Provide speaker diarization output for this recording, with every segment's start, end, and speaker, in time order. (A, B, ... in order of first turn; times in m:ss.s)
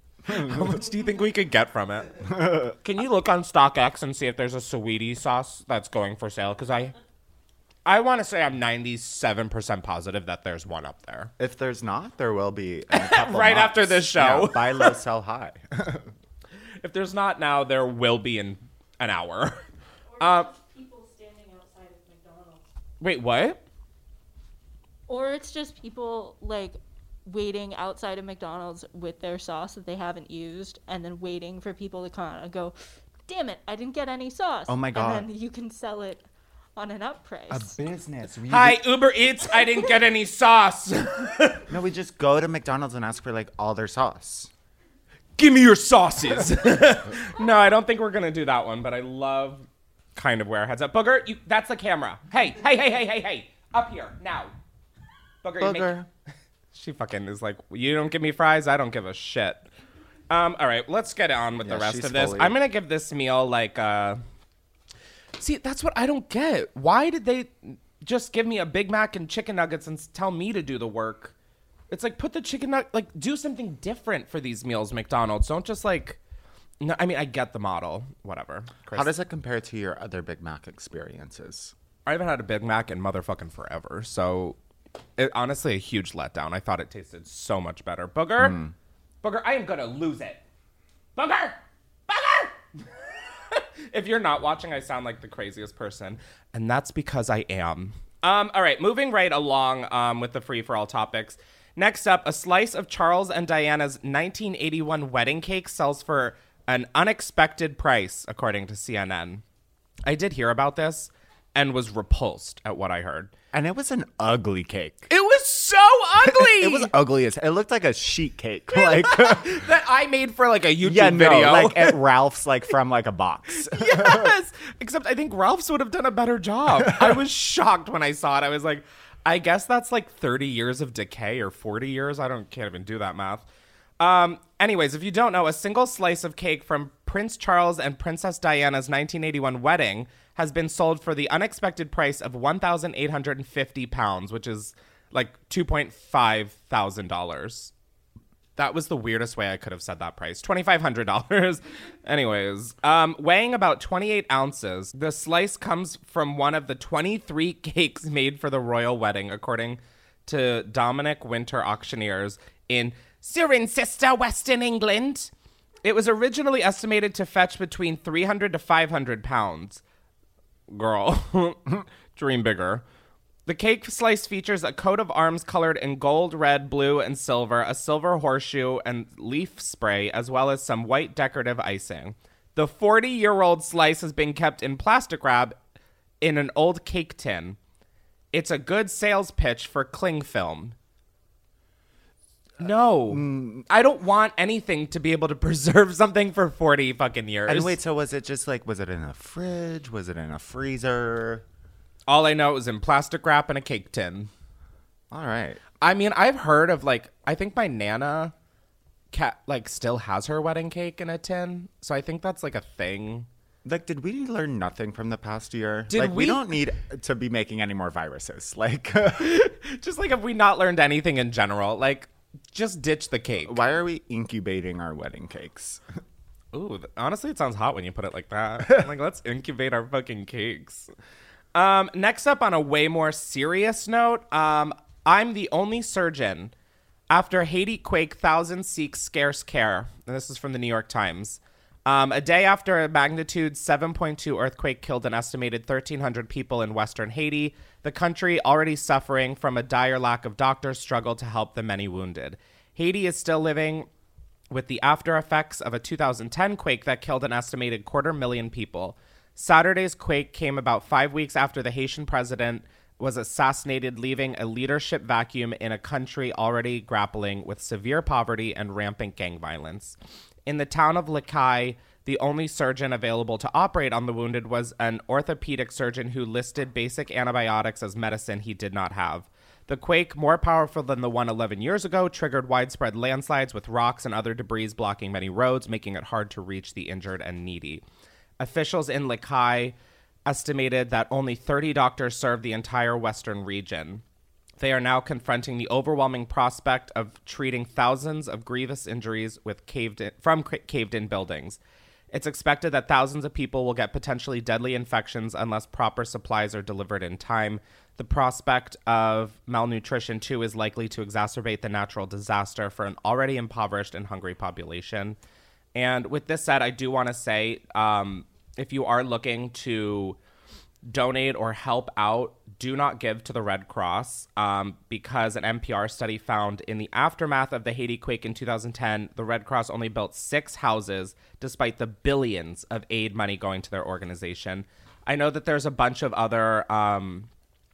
0:00.3-0:00.6 A
0:00.3-0:02.2 B
0:02.3-0:02.7 A
0:02.8-0:06.9 B
0:07.8-0:11.3 B
0:11.4-0:16.1 A
0:12.9-0:15.0 B
0:16.8-0:19.6 B
0:20.1-0:22.6 C
0:20.2-0:20.5 B
0:23.0-0:23.6 B
0:25.1-0:36.2 C
0:34.6-0:35.3 A
0:36.8-0:37.8 C
0:37.5-0:38.8 A
0:38.5-0:41.6 B
0:41.7-0:44.5 A
0:45.4-0:54.5 B
0:55.4-0:55.9 B
0:55.6-0:56.1 A
0:56.7-0:59.6 B
1:00.3-1:04.2 B
1:01.6-1:02.6 A
1:05.4-1:11.3 B
1:11.9-1:16.2 B
1:16.8-1:19.1 B
1:18.9-1:21.7 A
1:22.0-1:24.6 B
1:25.2-1:28.6 B
1:28.4-1:28.7 A
1:29.2-1:30.4 B
1:31.2-1:31.6 B
1:32.1-1:32.9 B
1:33.5-1:49.4 B
1:50.0-1:53.3 B
1:53.5-1:55.1 A
1:55.1-1:56.9 B
1:56.2-1:59.6 A
1:58.7-2:02.0 B
2:00.8-2:04.3 A
2:03.7-2:13.4 B
2:14.0-2:27.7 B
2:28.6-2:45.3 B
2:45.8-2:49.8 B
2:50.7-2:52.8 B
2:53.4-3:05.6 B
3:06.2-3:07.6 B
3:08.3-3:10.8 B
3:12.6-3:17.8 B
3:13.1-3:13.7 A
3:17.4-3:21.4 A
3:22.1-3:24.3 B
3:25.1-3:25.6 A
3:25.8-3:28.3 B
3:29.1-3:33.3 B
3:33.6-3:39.4 A
3:35.9-3:36.5 B
3:39.2-3:43.6 B
3:43.4-3:45.8 A
3:46.5-3:50.9 B
3:51.5-3:56.5 B
3:57.1-4:13.9 B
4:14.5-4:47.8 B
4:48.4-4:49.7 B
4:50.2-4:54.0 B
4:54.6-5:01.6 B
5:02.1-5:15.2 B
5:15.7-5:20.2 B
5:20.8-5:37.3 B